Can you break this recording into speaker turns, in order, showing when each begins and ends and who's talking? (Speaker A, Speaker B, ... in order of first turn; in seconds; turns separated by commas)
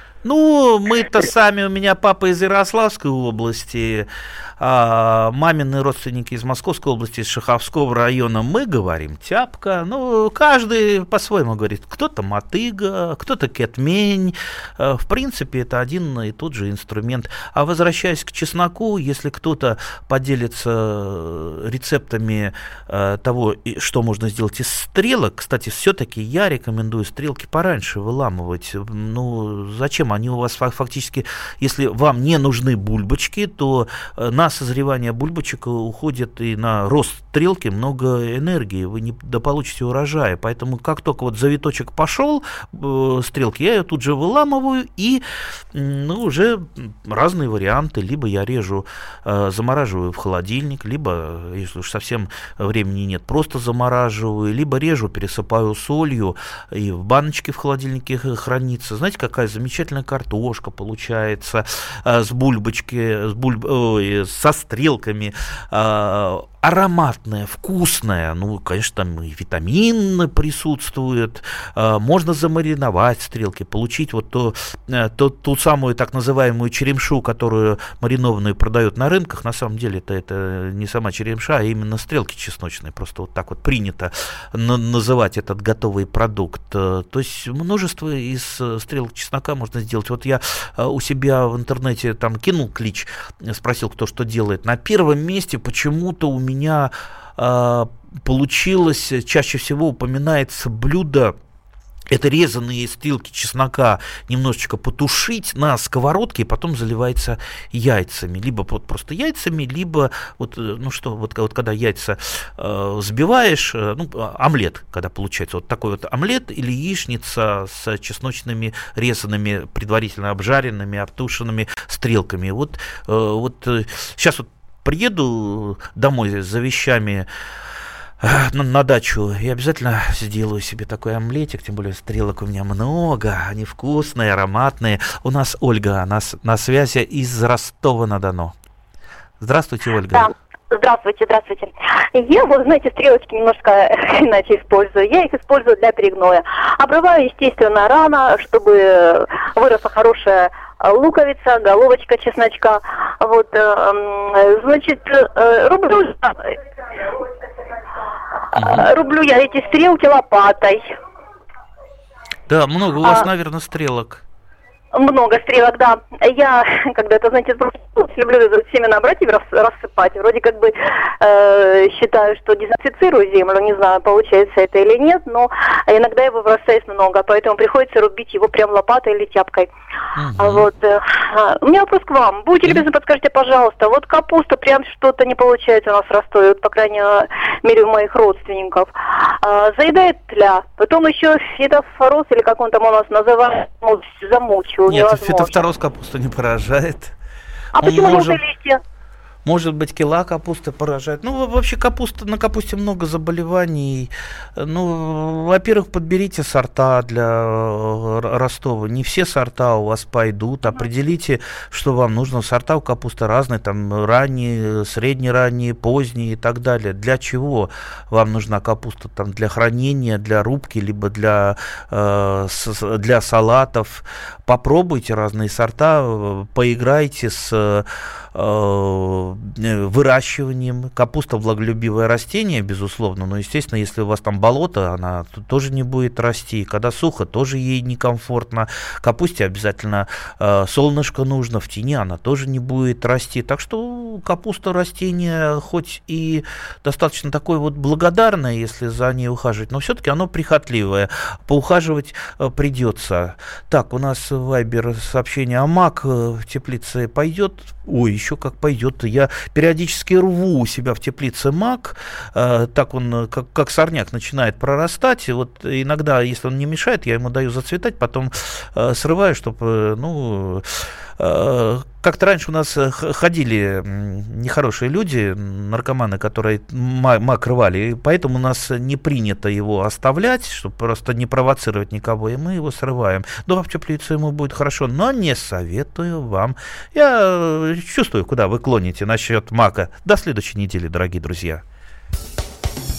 Speaker A: 0.2-101.3, Speaker A: 102.1-127.3, Speaker A: 128.2-138.5, Speaker A: 139.4-140.3, Speaker B: 140.1-157.1, Speaker A: 158.5-158.9, Speaker B: 158.6-160.8, Speaker A: 162.5-164.2, Speaker B: 164.9-179.7, Speaker A: 180.2-180.7, Speaker B: 180.4-195.6, Speaker A: 194.9-197.1, Speaker B: 197.7-198.8, Speaker A: 197.8-198.4, Speaker A: 199.4-291.6